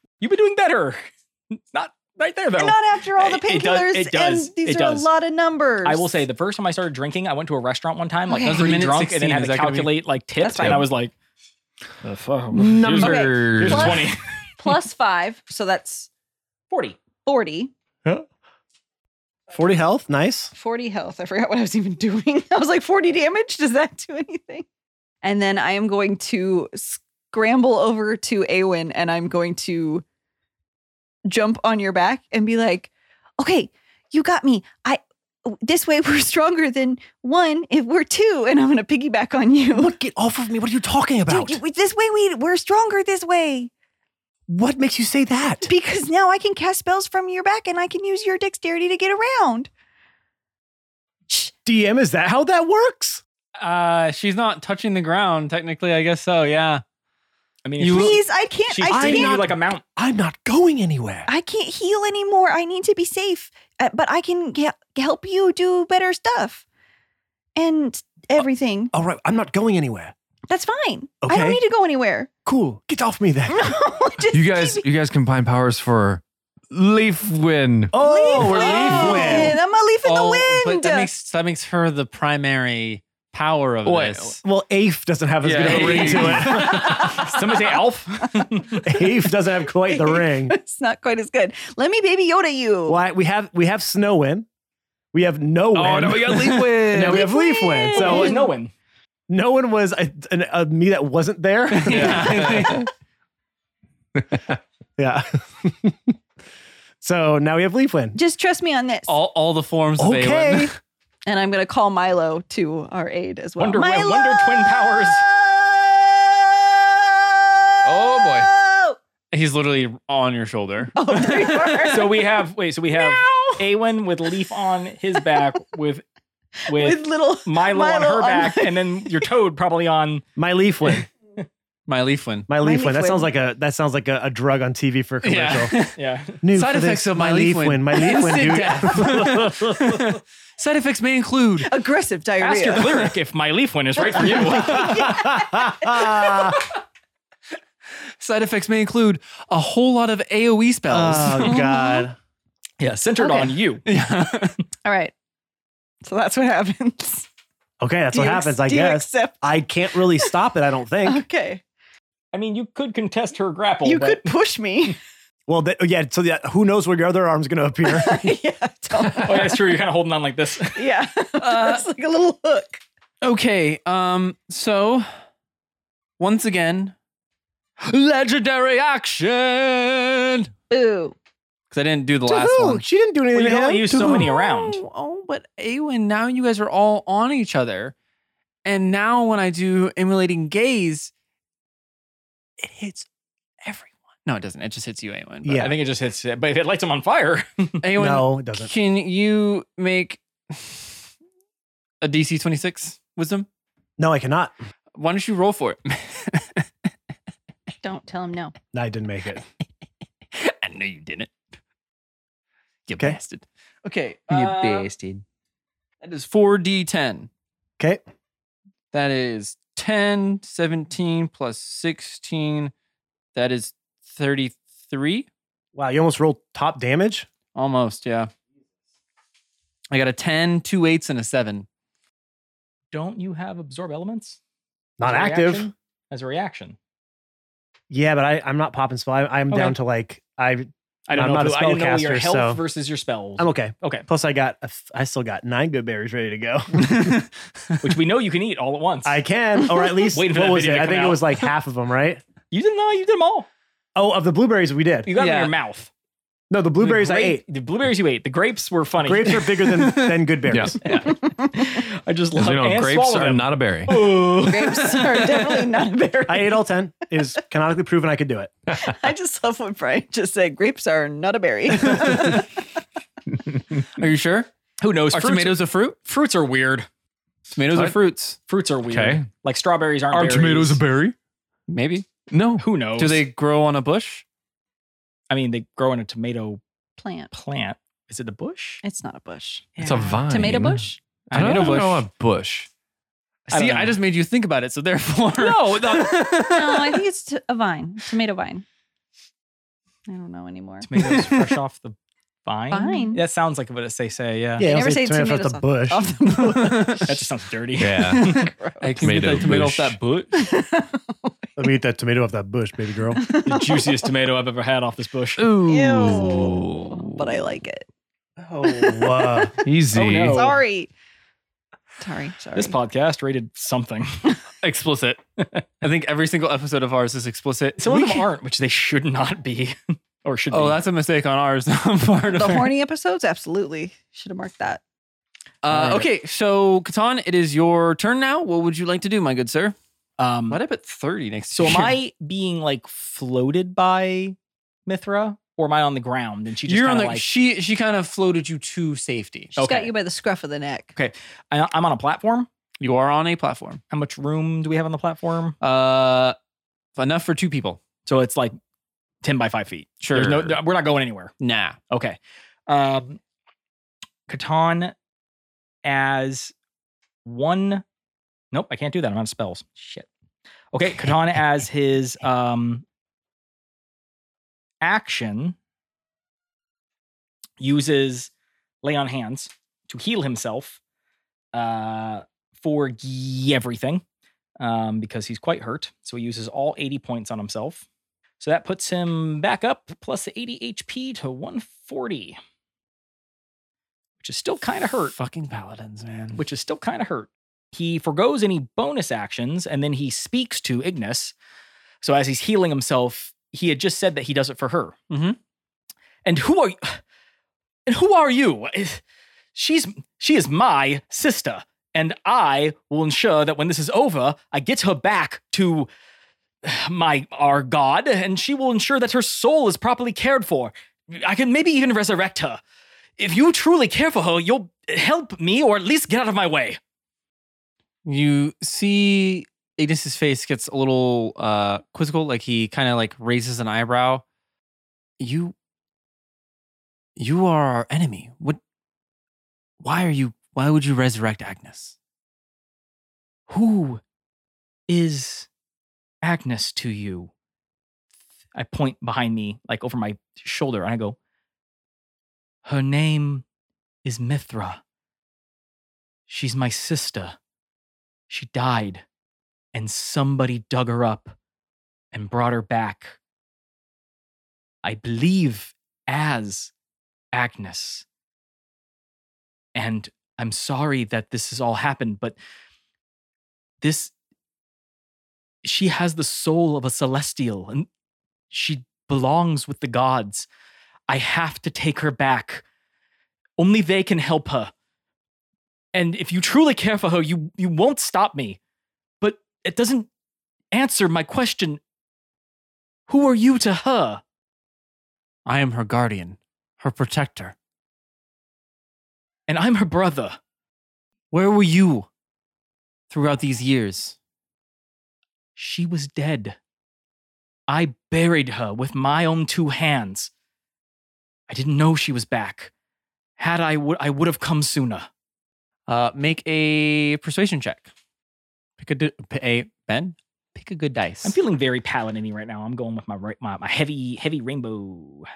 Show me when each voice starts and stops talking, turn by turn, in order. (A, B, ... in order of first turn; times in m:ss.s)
0:00.2-0:05.1 A
0:02.5-0:06.2 B
0:05.8-0:11.1 A
0:08.3-0:08.8 B
0:08.4-0:10.0 C
0:10.4-0:10.9 B
0:12.0-0:14.3 A
0:12.5-0:14.1 D
0:13.0-0:16.1 B
0:16.7-0:17.0 A
0:17.2-0:17.7 B
0:19.5-0:20.5 E
0:20.5-0:24.6 B
0:25.2-0:30.0 B
0:31.2-0:39.9 B
0:39.7-0:41.6 E
0:41.3-0:43.7 B
0:44.5-0:45.7 E
0:45.6-0:49.7 B
0:51.6-0:53.2 E
0:53.6-0:56.8 C
0:57.6-0:59.8 A
0:57.8-0:58.2 C
0:57.9-0:59.4 B
0:58.9-1:01.3 E
1:01.3-1:06.6 B
1:07.6-1:08.9 B
1:08.4-1:10.1 E
1:10.5-1:12.3 B
1:11.2-1:11.6 E
1:12.4-1:13.8 E
1:13.5-1:14.8 B
1:14.3-1:19.2 D
1:17.9-1:19.6 E
1:18.0-1:21.1 B
1:18.6-1:19.5 C
1:20.0-1:24.4 C
1:23.8-1:24.4 D
1:24.4-1:27.2 E
1:25.4-1:26.8 C
1:25.6-1:27.1 D
1:25.6-1:28.9 A
1:26.6-1:29.0 B
1:28.8-1:30.6 E
1:29.9-1:33.0 B
1:32.8-1:34.5 E
1:35.1-1:38.4 E
1:35.7-1:37.3 D
1:36.3-1:36.8 C
1:37.0-1:38.5 B
1:37.9-1:38.7 A
1:39.3-1:42.8 E
1:41.7-1:42.9 C
1:42.2-1:42.6 D
1:45.0-1:46.1 E
1:47.0-1:48.2 E
1:48.1-1:49.1 B
1:49.1-1:50.7 C
1:50.0-1:50.7 E
1:51.2-1:59.0 B
1:53.6-1:55.2 A
1:57.8-1:58.5 C
1:59.3-2:01.9 C
2:00.9-2:02.3 B
2:01.8-2:06.0 A
2:02.9-2:03.7 B
2:06.7-2:10.2 A
2:06.7-2:09.1 B
2:10.4-2:11.1 E
2:11.9-2:12.5 C
2:12.5-2:15.8 E
2:12.6-2:13.2 B
2:15.2-2:16.0 C
2:16.0-2:16.4 A
2:16.4-2:20.0 E
2:16.5-2:21.7 C
2:21.6-2:23.1 B
2:22.4-2:25.0 A
2:24.0-2:26.7 B
2:24.6-2:26.6 E
2:28.2-2:31.6 C
2:30.9-2:32.2 E
2:31.4-2:32.0 B
2:32.8-2:33.8 A
2:33.2-2:33.5 B
2:33.8-2:34.6 C
2:34.8-2:35.1 B
2:36.0-2:37.3 B
2:37.8-2:41.2 E
2:38.1-2:39.6 B
2:41.0-2:41.6 B
2:42.3-2:44.3 A
2:43.8-2:45.0 B
2:45.5-2:48.3 E
2:47.8-2:49.6 B
2:49.1-2:50.8 A
2:50.7-2:52.8 B
2:51.4-2:51.9 C
2:53.2-2:55.1 C
2:56.2-2:56.9 C
2:57.8-3:00.5 C
3:00.7-3:01.2 B
3:01.7-3:02.8 C
3:02.3-3:04.3 E
3:03.3-3:04.8 A
3:04.0-3:07.9 C
3:08.6-3:11.1 C
3:12.6-3:13.1 C
3:13.6-3:15.7 C
3:15.4-3:15.7 E
3:15.5-3:17.8 A
3:17.8-3:21.0 C
3:17.9-3:18.7 E
3:22.0-3:23.5 C
3:24.0-3:24.5 E
3:25.0-3:26.6 C
3:27.8-3:28.5 B
3:28.7-3:29.4 E
3:30.3-3:31.3 C
3:32.9-3:35.2 C
3:34.4-3:34.8 A
3:36.0-3:37.3 C
3:38.9-3:42.7 C
3:43.3-3:45.3 C
3:45.7-3:47.3 E
3:47.5-3:48.3 C
3:49.9-3:51.7 C
3:52.9-3:54.4 A
3:55.0-3:55.7 E
3:55.0-3:56.8 A
3:57.9-4:02.6 E
3:59.5-3:59.7 A
4:01.1-4:04.0 A
4:03.4-4:07.2 E
4:06.8-4:07.8 C
4:07.8-4:09.2 A
4:09.0-4:12.2 E
4:10.1-4:11.3 A
4:12.5-4:13.5 A
4:13.9-4:15.1 E
4:15.0-4:15.9 A
4:15.2-4:15.5 C
4:16.5-4:17.4 E
4:16.8-4:19.9 A
4:19.0-4:20.8 E
4:19.7-4:20.1 C
4:20.5-4:20.8 D
4:20.8-4:25.8 A
4:20.9-4:21.8 B
4:22.4-4:24.2 D
4:24.3-4:26.7 B
4:26.2-4:28.5 E
4:28.7-4:32.4 B
4:31.7-4:32.5 C
4:33.9-4:34.5 C
4:34.8-4:36.9 A
4:35.1-4:36.0 C
4:37.5-4:38.4 C
4:37.7-4:38.0 D
4:38.5-4:40.8 A
4:38.8-4:39.2 D
4:40.1-4:41.1 D
4:41.7-4:42.1 C
4:42.3-4:42.6 D
4:42.6-4:43.2 A
4:43.0-4:44.2 C
4:45.3-4:46.6 A
4:47.0-4:47.3 B
4:47.3-4:48.8 A
4:48.8-4:51.0 B
4:49.7-4:50.2 A
4:49.8-4:52.7 D
4:51.3-4:51.9 A
4:51.3-4:52.0 C
4:53.5-4:57.0 C
4:53.5-4:54.0 A
4:55.4-4:56.2 D
4:56.4-4:58.6 B
5:00.1-5:00.9 B
5:00.8-5:04.7 A
5:01.0-5:01.5 C
5:02.7-5:03.2 B
5:04.6-5:06.9 E
5:04.6-5:07.0 B
5:06.6-5:07.1 C
5:07.1-5:08.4 A
5:07.8-5:08.4 D
5:08.2-5:09.1 B
5:08.8-5:10.5 C
5:09.0-5:10.0 D
5:10.3-5:11.4 B
5:11.6-5:13.2 E
5:13.1-5:14.0 B
5:13.4-5:15.4 A
5:15.4-5:17.4 D
5:15.6-5:17.9 B
5:18.4-5:19.6 E
5:18.6-5:19.5 B
5:19.6-5:20.5 D
5:19.9-5:20.6 A
5:20.3-5:20.9 B
5:22.0-5:22.8 B
5:22.5-5:24.3 A
5:24.6-5:25.2 C
5:25.4-5:25.6 A
5:25.8-5:28.2 C
5:27.8-5:30.8 A
5:30.5-5:32.7 C
5:32.3-5:34.8 B
5:35.6-5:39.7 C
5:35.7-5:36.1 A
5:40.2-5:40.6 A
5:40.5-5:42.0 C
5:41.5-5:44.4 A
5:44.9-5:47.3 A
5:46.6-5:49.7 C
5:49.6-5:49.9 A
5:49.6-5:50.9 B
5:50.9-5:52.5 A
5:52.8-5:53.8 C
5:53.9-5:55.6 A
5:55.6-5:56.4 C
5:57.0-5:57.8 C
5:58.0-5:58.6 A
5:59.2-6:01.3 A
6:00.0-6:00.6 C
6:01.4-6:01.8 C
6:01.9-6:02.2 A
6:02.7-6:03.2 A
6:04.3-6:04.9 A
6:05.8-6:06.5 A
6:07.2-6:07.8 A
6:08.5-6:10.1 A
6:10.7-6:12.8 A
6:14.8-6:15.6 A
6:17.6-6:18.3 A
6:18.8-6:20.8 A
6:21.5-6:24.0 A
6:24.6-6:27.8 A
6:28.4-6:32.4 A
6:34.2-6:35.1 A
6:35.1-6:36.4 C
6:36.3-6:41.3 A
6:42.0-6:45.0 A
6:45.1-6:45.4 C
6:46.2-6:47.0 A
6:47.9-6:49.0 A
6:49.5-6:55.9 A
6:56.6-7:02.6 A
7:03.2-7:06.8 A
7:08.0-7:14.2 C
7:15.2-7:15.5 C
7:17.2-7:18.6 C
7:19.8-7:22.0 C
7:23.5-7:24.0 A
7:24.9-7:25.5 A
7:26.2-7:27.3 A
7:28.5-7:31.2 A
7:32.6-7:33.4 A
7:34.0-7:34.8 A
7:36.3-7:37.4 A
7:38.3-7:39.0 A
7:39.7-7:41.3 A
7:42.1-7:43.2 A
7:44.8-7:46.7 A
7:47.3-7:48.0 A
7:49.8-7:52.4 A
7:53.8-7:54.1 A
7:55.6-7:57.9 A
7:58.5-8:00.5 A
8:01.1-8:02.6 A
8:03.6-8:04.7 A
8:05.9-8:08.6 A
8:09.2-8:10.1 A
8:10.7-8:11.8 A
8:13.1-8:14.2 A
8:15.4-8:17.5 C
8:19.5-8:20.4 A
8:21.3-8:22.1 C
8:23.1-8:24.2 C
8:25.6-8:26.6 A
8:27.7-8:30.3 A
8:31.5-8:32.7 A
8:33.4-8:35.1 A
8:35.9-8:37.9 C
8:38.8-8:41.3 C
8:41.2-8:45.3 A